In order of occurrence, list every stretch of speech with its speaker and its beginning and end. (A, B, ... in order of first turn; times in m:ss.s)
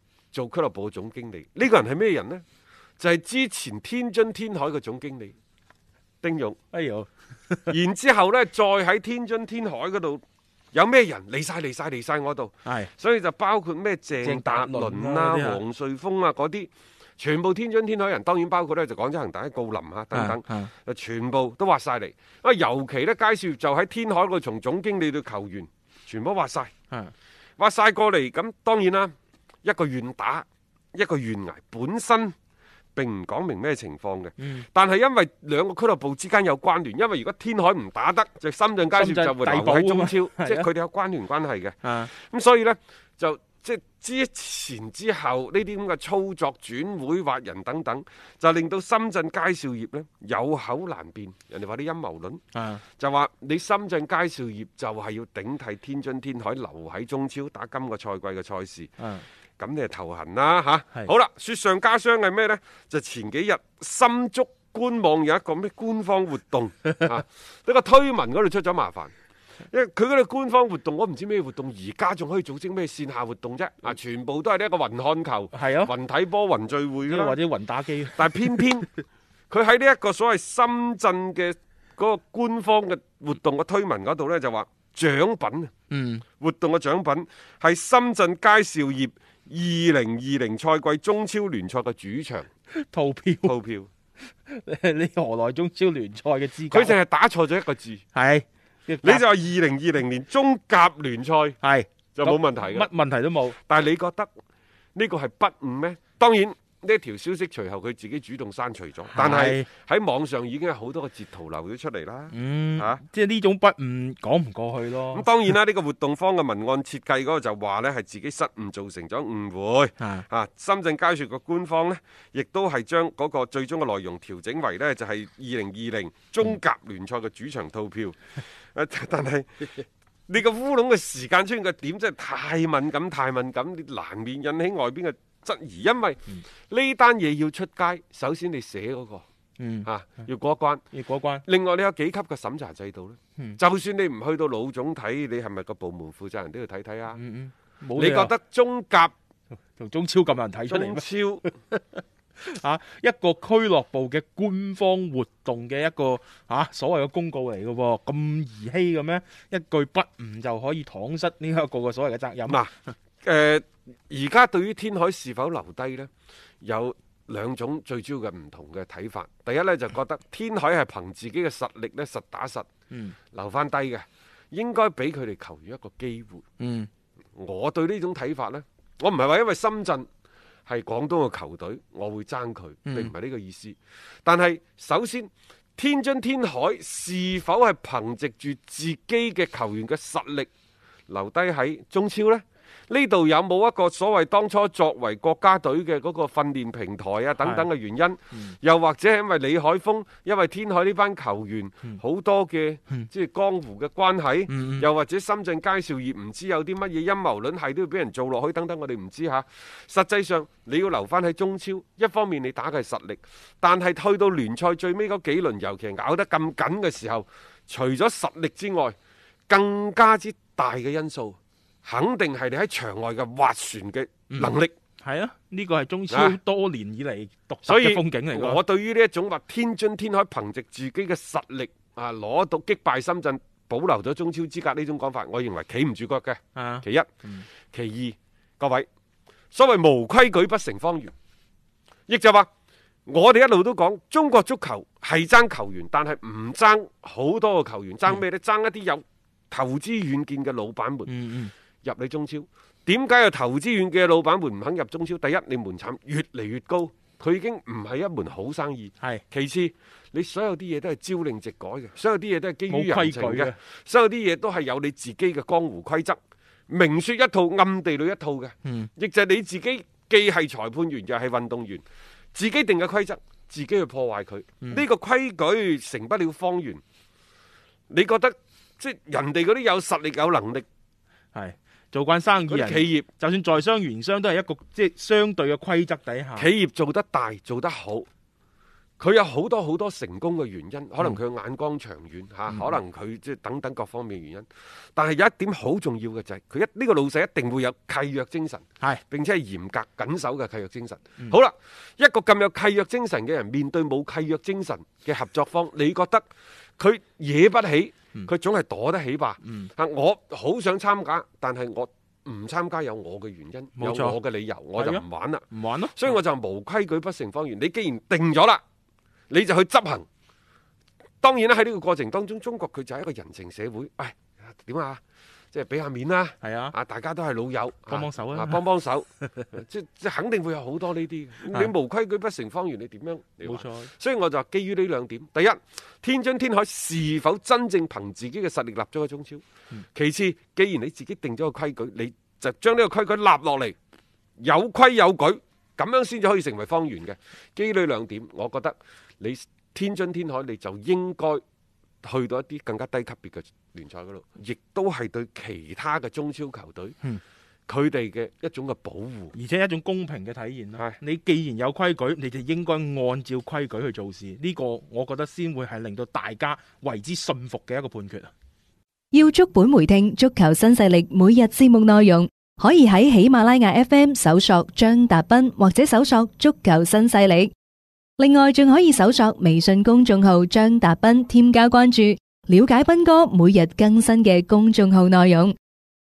0:00.3-0:02.4 A
0:03.0-0:05.3 A
0:06.2-0:06.6 A
0:06.7-0:07.7 B
0:07.7-0:26.7 A
0:12.6-0:12.9 B
0:14.2-0:15.6 B
0:20.1-0:20.7 B
0:27.6-0:32.3 A
0:32.9-0:52.4 A
0:34.4-0:34.6 B
0:38.9-0:40.7 B
0:41.8-0:42.1 B
0:52.5-0:52.8 B
0:53.0-0:59.0 A
0:59.0-0:59.2 B
0:59.6-1:09.1 A
1:09.7-1:17.4 A
1:15.5-1:15.9 B
1:17.1-1:18.6 B
1:18.2-1:18.9 A
1:19.5-1:25.7 A
1:25.9-1:26.2 B
1:26.4-1:32.5 A
1:32.7-1:33.5 B
1:33.4-1:33.9 A
1:34.3-1:37.0 B
1:36.7-1:38.0 A
1:38.1-1:39.2 B
1:39.0-1:41.6 A
1:41.6-1:43.6 B
1:42.1-1:42.9 A
1:43.7-1:44.3 A
1:45.0-1:53.0 A
1:49.1-1:49.7 B
1:52.3-1:55.2 B
1:55.1-2:19.2 A
2:00.0-2:00.2 B
2:19.6-2:19.9 B
2:19.8-2:20.8 A
2:20.9-2:21.4 B
2:21.4-2:27.2 A
2:27.1-2:28.3 B
2:28.0-2:29.1 A
2:29.8-2:42.9 B
2:30.7-2:31.4 A
2:43.2-2:46.1 A
2:46.6-2:52.7 A
2:52.9-2:53.2 B
2:53.3-2:56.4 A
2:56.6-2:56.9 B
2:57.4-3:00.1 A
3:00.7-3:10.5 A
3:02.8-3:03.1 B
3:11.1-3:39.0 A
3:17.4-3:17.7 B
3:24.5-3:24.8 B
3:39.5-3:44.7 A
3:44.3-3:48.6 B
3:46.1-3:46.4 A
3:47.6-3:57.1 A
3:56.5-3:57.4 B
3:57.7-3:58.9 A
3:59.5-4:01.1 A
4:02.1-4:02.5 A
4:03.1-4:11.1 A
4:11.1-4:11.5 B
4:11.8-4:31.8 A
4:22.7-4:23.5 B
4:28.6-4:28.9 B
4:32.3-4:36.8 A
4:37.9-4:40.6 A
4:41.3-4:46.5 B
4:42.5-4:43.1 A
4:46.4-4:48.1 A
4:49.0-5:06.2 A
4:52.5-4:52.8 B
5:06.8-5:18.6 A
5:09.4-5:09.7 B
5:13.8-5:14.2 B
5:14.8-5:16.2 B
5:19.3-5:20.0 A
5:21.2-5:25.0 A
5:25.5-5:39.4 A
5:26.4-5:26.8 B
5:27.9-5:28.6 B
5:33.4-5:33.9 B
5:39.9-5:43.7 A
5:44.4-5:51.4 A
5:52.0-5:57.0 A
5:57.7-5:59.3 A
5:59.3-6:08.3 B
6:09.1-6:17.5 C
6:18.2-6:25.5 C